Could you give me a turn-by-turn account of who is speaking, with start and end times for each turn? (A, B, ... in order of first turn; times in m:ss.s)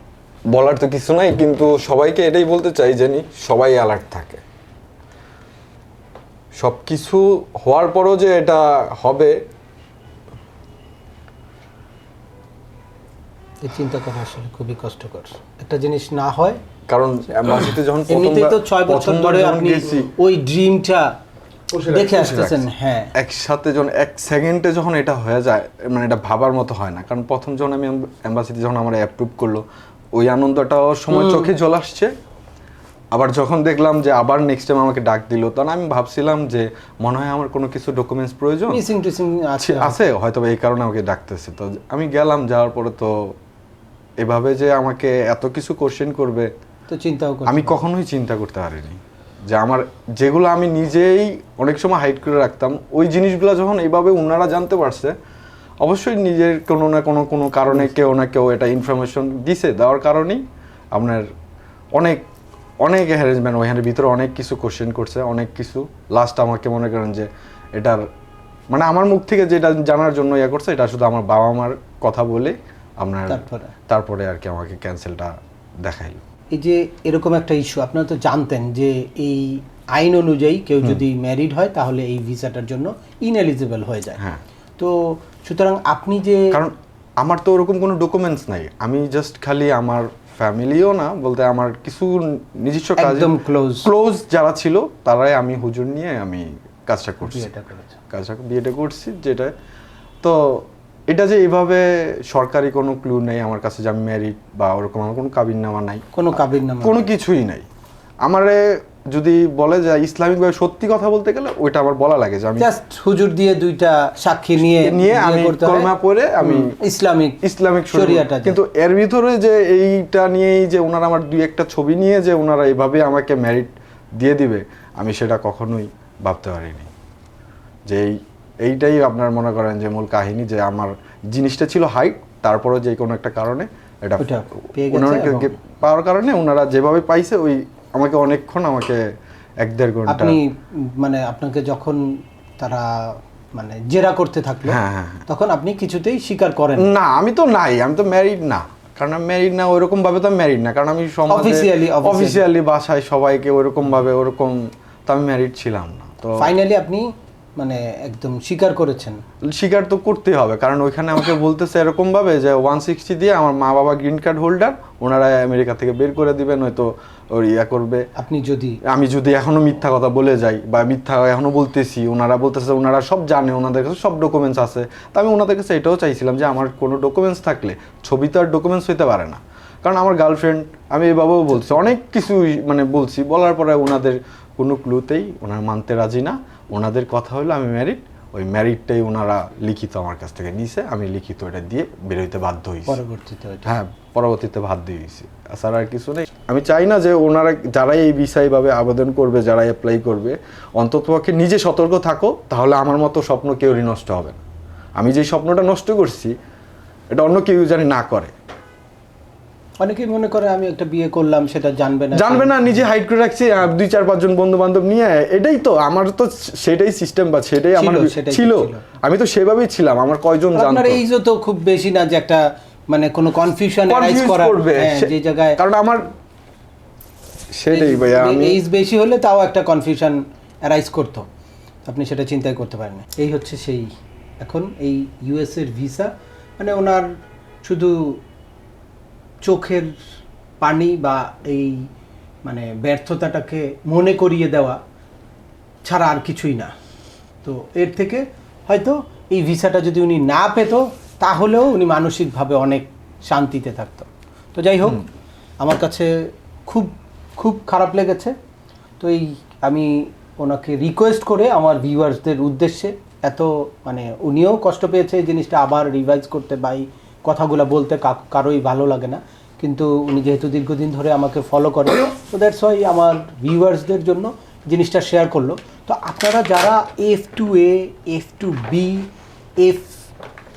0:00.5-0:04.4 A
0:06.6-0:09.4 A
0:13.6-0:16.6 B
0:16.9-0:20.1 A
0:18.1-0:21.1 B
0:21.7-0:32.1 A
0:21.8-0:23.1 B
0:31.1-0:31.5 B
0:33.1-0:38.8 A
0:38.7-0:40.0 B
0:39.6-0:43.3 A
0:44.2-0:46.5 A
0:46.9-0:47.8 B
0:47.5-0:55.1 A
0:55.8-1:00.4 A
1:00.9-1:01.3 A
1:02.0-1:02.2 A
1:02.8-1:08.0 A
1:08.7-1:16.2 A
1:13.3-1:13.7 B
1:16.5-1:24.2 B
1:24.8-1:26.6 B
1:26.5-1:37.5 A
1:33.0-1:33.9 B
1:37.2-1:38.0 B
1:38.1-1:39.5 A
1:40.2-1:46.0 A
1:46.1-1:47.0 B
1:46.8-1:47.7 A
1:48.2-1:52.7 A
1:52.6-1:57.4 B
1:54.6-1:56.7 A
1:57.4-2:06.9 A
1:57.9-1:58.6 B
2:07.9-2:14.3 A
2:14.2-2:15.6 B
2:14.8-2:19.0 A
2:19.6-2:20.4 A
2:20.1-2:26.9 B
2:24.7-2:25.2 A
2:26.8-2:36.5 A
2:31.3-2:32.4 B
2:36.4-2:39.2 B
2:39.5-2:48.0 A
2:48.2-2:48.8 B
2:48.9-3:13.0 A
3:01.5-3:01.9 B
3:12.9-3:13.7 B
3:13.7-3:24.4 A
3:25.0-3:26.3 A
3:27.1-3:28.3 A
3:29.8-3:32.8 B
3:32.2-3:41.0 A
3:37.7-3:38.8 B
3:40.5-3:45.6 B
3:43.9-3:46.0 A
3:47.5-3:48.6 A
3:47.7-3:51.2 B
3:51.8-3:53.9 B
3:54.4-3:57.1 B
3:57.6-3:58.2 B
3:59.4-4:00.0 B
4:00.6-4:01.9 B
4:02.4-4:04.8 B
4:05.8-4:06.7 B
4:07.4-4:15.0 B
4:15.6-4:18.4 B
4:19.0-4:39.1 B
4:39.6-4:40.0 B